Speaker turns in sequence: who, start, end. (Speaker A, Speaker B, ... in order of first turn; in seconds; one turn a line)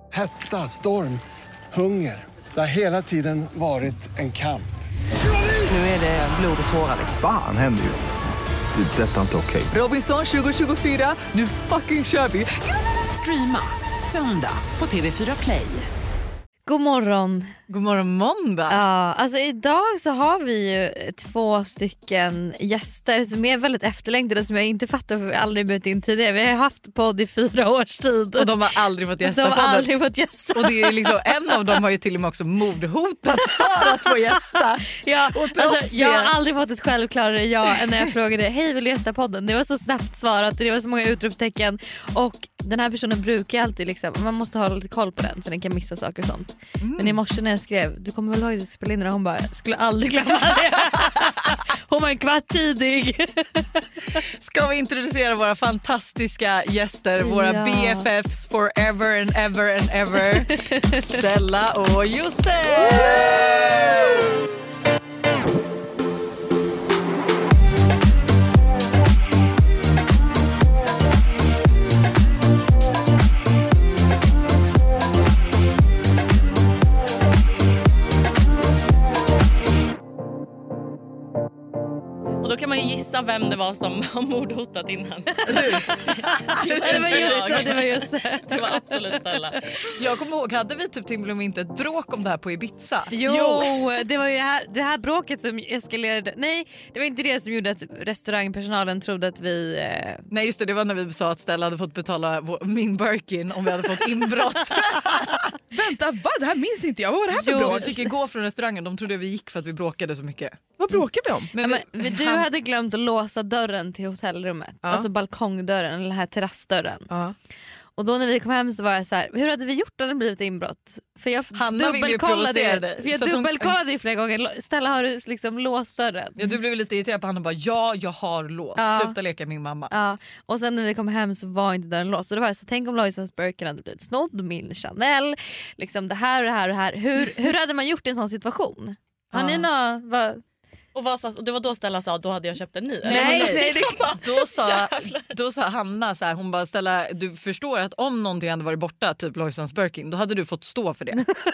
Speaker A: 0.1-1.2
Speaker A: 1.7-4.7
Speaker B: 7.1-8.2
Speaker B: 8.8-9.8
Speaker C: 10.2-10.6
Speaker D: 13.0-15.9
Speaker E: 16.7-17.5
Speaker C: 17.7-18.8
Speaker E: 18.7-28.6
Speaker C: 28.4-30.0
Speaker E: 29.2-31.6
Speaker C: 30.5-36.3
Speaker E: 33.6-54.0
Speaker C: 46.8-47.2
Speaker C: 54.4-64.3
Speaker E: 57.2-58.1
Speaker E: 60.5-61.2
Speaker E: 62.9-63.1
Speaker F: 82.4-86.3
Speaker G: 85.5-85.9
Speaker G: 86.5-87.8
Speaker E: 86.8-89.2
Speaker F: 86.8-89.6
Speaker C: 90.0-93.1
Speaker E: 93.1-100.2
Speaker G: 93.2-93.8
Speaker C: 100.3-105.5
Speaker G: 105.7-108.0
Speaker E: 107.4-108.0
Speaker C: 107.5-110.6
Speaker G: 110.8-111.5
Speaker C: 111.5-112.5
Speaker E: 111.6-117.1
Speaker G: 114.8-115.1
Speaker G: 117.1-117.4
Speaker E: 118.0-126.5
Speaker C: 121.5-123.7
Speaker C: 126.4-129.9
Speaker E: 128.8-129.2
Speaker E: 129.9-140.4
Speaker C: 139.3-139.7
Speaker F: 140.9-145.3
Speaker G: 143.1-144.1
Speaker E: 143.1-143.6
Speaker C: 143.2-151.3